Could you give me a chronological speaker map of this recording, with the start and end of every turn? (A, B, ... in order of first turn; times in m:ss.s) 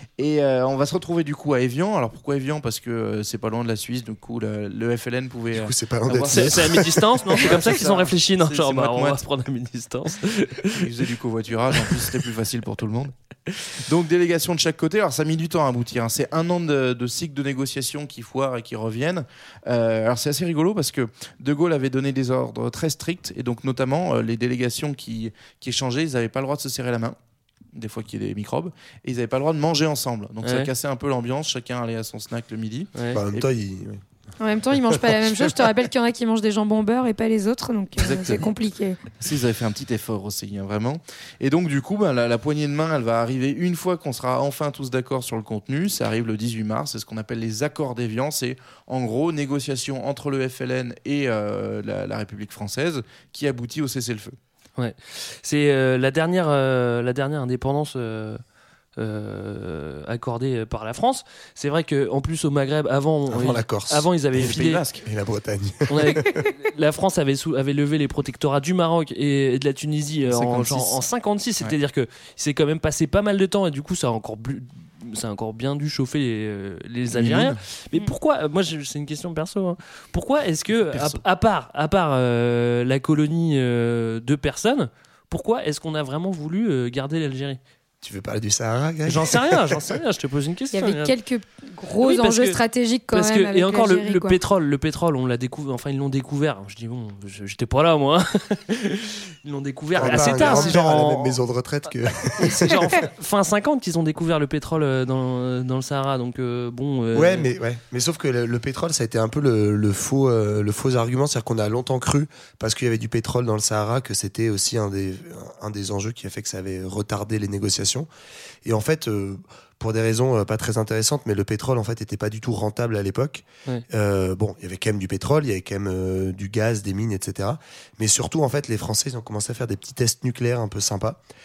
0:00.2-0:09.2 A
0:05.5-0:07.6 B
0:06.2-0:10.8 C
0:10.7-0:13.1 A
0:13.8-0:27.2 A
0:27.7-0:33.4 A
0:30.4-0:30.7 C
0:33.1-0:34.0 B
0:34.4-0:39.0 D
0:34.9-0:35.4 B
0:38.0-0:38.5 A
0:39.2-0:54.4 A
0:54.8-0:58.4 C
0:59.0-1:04.8 C
1:03.3-1:06.4 B
1:04.3-1:05.0 A
1:05.9-1:27.6 C
1:10.3-1:11.0 A
1:17.1-1:17.6 A
1:20.9-1:21.2 B
1:28.0-1:29.9 B
1:29.0-1:31.1 C
1:30.7-1:34.4 D
1:32.0-1:32.6 C
1:33.1-1:41.4 C
1:40.0-1:42.9 B
1:40.1-1:40.6 A
1:42.4-1:47.5 C
1:47.1-1:58.1 B
1:58.6-2:11.2 B